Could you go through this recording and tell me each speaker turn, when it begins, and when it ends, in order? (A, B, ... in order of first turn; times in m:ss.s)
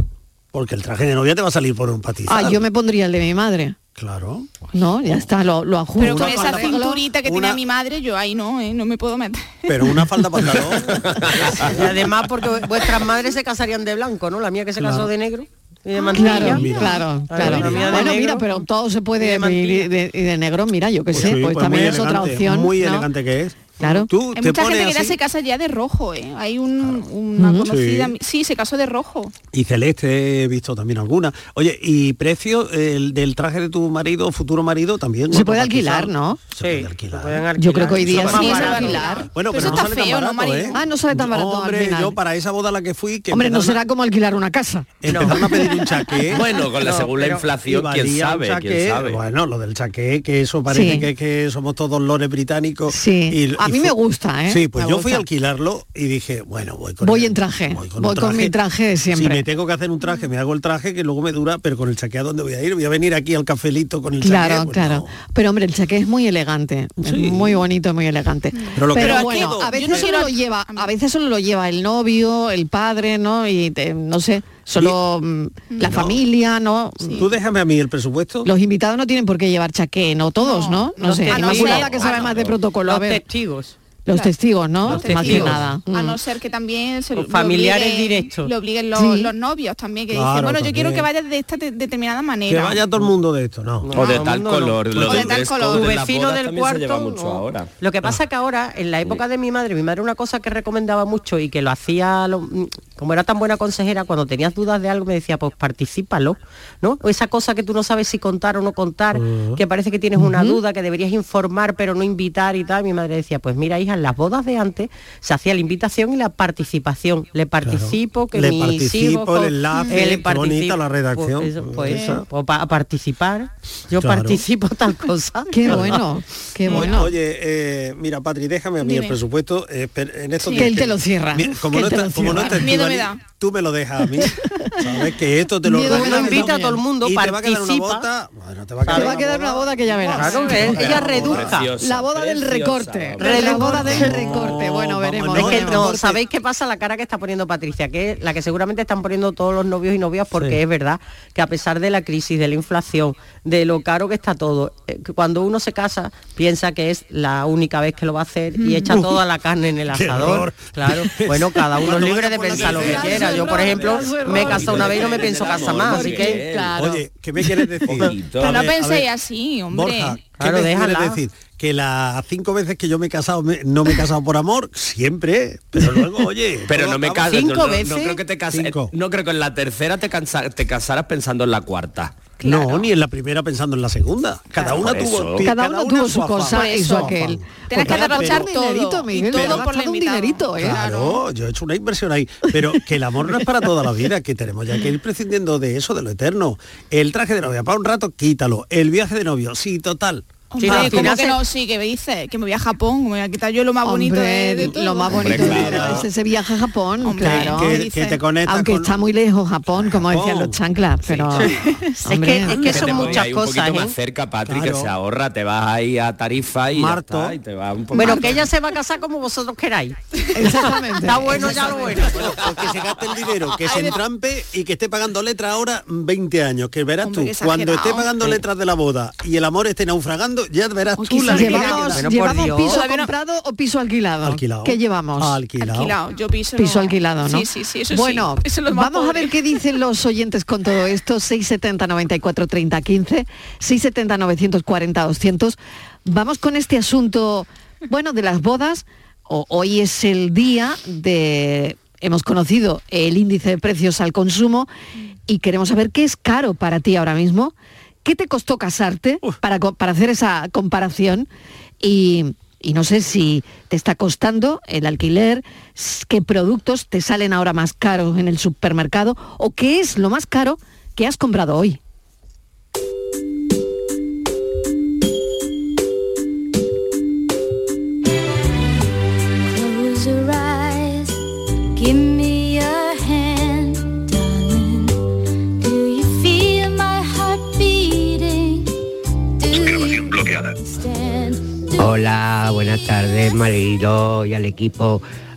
0:00.5-0:02.6 A
0:02.3-0:03.8 B
0:04.0-0:04.7 A
0:04.7-0:07.0 B
0:06.0-0:10.0 C
0:06.0-0:07.6 A
0:09.7-0:12.1 A
0:11.2-0:11.6 D
0:11.6-0:16.7 E
0:14.8-0:15.1 A
0:16.0-0:18.1 C
0:16.1-0:23.1 B
0:16.2-0:18.0 A
0:17.2-0:18.6 E
0:19.2-0:19.9 E
0:21.1-0:25.2 A
0:23.8-0:24.1 B
0:24.4-0:29.3 C
0:26.8-0:27.1 A
0:27.4-0:27.7 B
0:27.6-0:28.1 A
0:29.5-0:43.8 A
0:35.3-0:36.4 B
0:36.6-0:39.3 E
0:37.6-0:39.8 B
0:38.1-0:40.8 C
0:40.7-0:42.2 B
0:43.3-0:45.9 B
0:45.0-0:53.9 A
0:45.0-0:45.5 E
0:46.3-0:49.2 D
0:46.8-0:47.4 E
0:50.7-0:51.1 B
0:52.9-0:55.2 B
0:54.5-0:58.5 A
0:57.0-0:59.5 B
0:59.1-1:05.1 A
1:04.2-1:17.2 B
1:07.0-1:07.6 A
1:08.5-1:10.9 C
1:08.8-1:10.1 A
1:15.7-1:16.0 C
1:15.8-1:16.2 A
1:17.0-1:17.3 C
1:17.1-1:18.5 A
1:18.4-1:23.2 B
1:20.4-1:22.3 C
1:21.0-1:22.1 E
1:22.1-1:22.6 D
1:22.8-1:23.8 E
1:24.0-1:26.2 B
1:24.8-1:32.8 C
1:24.9-1:25.7 A
1:24.9-1:25.6 E
1:27.2-1:28.5 E
1:29.0-1:29.3 B
1:30.1-1:31.1 A
1:32.5-1:34.0 A
1:33.8-2:06.0 E
1:33.9-1:37.7 D
1:34.9-1:35.4 A
1:35.1-1:35.9 C
1:49.1-1:49.6 A
1:50.2-1:50.6 B
1:57.6-2:02.2 A
1:59.7-2:00.0 C
2:01.9-2:02.2 C
2:04.0-2:04.4 A
2:05.5-2:07.1 B
2:05.7-2:06.0 A
2:06.7-2:07.0 C
2:06.7-2:21.6 A
2:08.8-2:09.2 C
2:10.4-2:10.7 C
2:10.5-2:12.7 B
2:12.4-2:13.2 C
2:14.2-2:14.7 B
2:15.6-2:16.7 B
2:15.7-2:18.1 E
2:18.8-2:19.2 E
2:18.9-2:26.0 B
2:20.1-2:21.7 E
2:20.2-2:20.8 C
2:20.6-2:24.1 D
2:23.2-2:24.0 E
2:23.2-2:26.2 A
2:25.3-2:46.4 E
2:30.3-2:30.6 A
2:38.6-2:39.0 C
2:38.9-2:39.2 A
2:39.9-2:49.1 A
2:42.5-2:46.8 D
2:42.8-2:47.0 B
2:47.9-2:48.6 D
2:48.4-2:50.2 C
2:49.7-2:57.5 A
2:50.4-2:51.2 E
2:56.7-3:02.3 D
2:57.3-2:58.2 E
2:58.5-2:58.9 A
3:02.4-3:02.9 C
3:02.4-3:08.5 A
3:04.6-3:05.5 D
3:05.4-3:10.9 B
3:06.5-3:11.2 C
3:09.3-3:09.6 A
3:10.6-3:21.2 A
3:20.5-3:25.7 C
3:20.6-3:21.4 E
3:23.8-3:27.8 B
3:25.1-3:26.1 D
3:25.2-3:26.0 A
3:27.0-3:28.2 C
3:27.2-3:29.0 A
3:28.5-3:33.1 B
3:29.7-3:30.6 A
3:32.1-3:33.9 E
3:32.5-3:38.5 D
3:34.5-3:34.9 A
3:36.7-3:37.4 A
3:37.9-3:38.2 C
3:37.9-3:42.6 E
3:40.3-3:41.8 B
3:41.4-3:52.2 A
3:43.6-3:44.0 C
3:47.0-3:48.1 C
3:51.0-3:55.4 B
3:51.2-3:52.8 E
3:51.3-3:53.1 C
3:54.2-3:56.0 A
3:55.6-3:59.6 C
3:56.6-4:14.7 B
4:15.3-4:21.3 B
4:21.8-4:31.8 B
4:39.5-4:41.2 F
4:41.8-4:45.0 F
4:45.6-4:48.7 F
4:49.4-4:51.9 F
4:51.8-4:55.0 G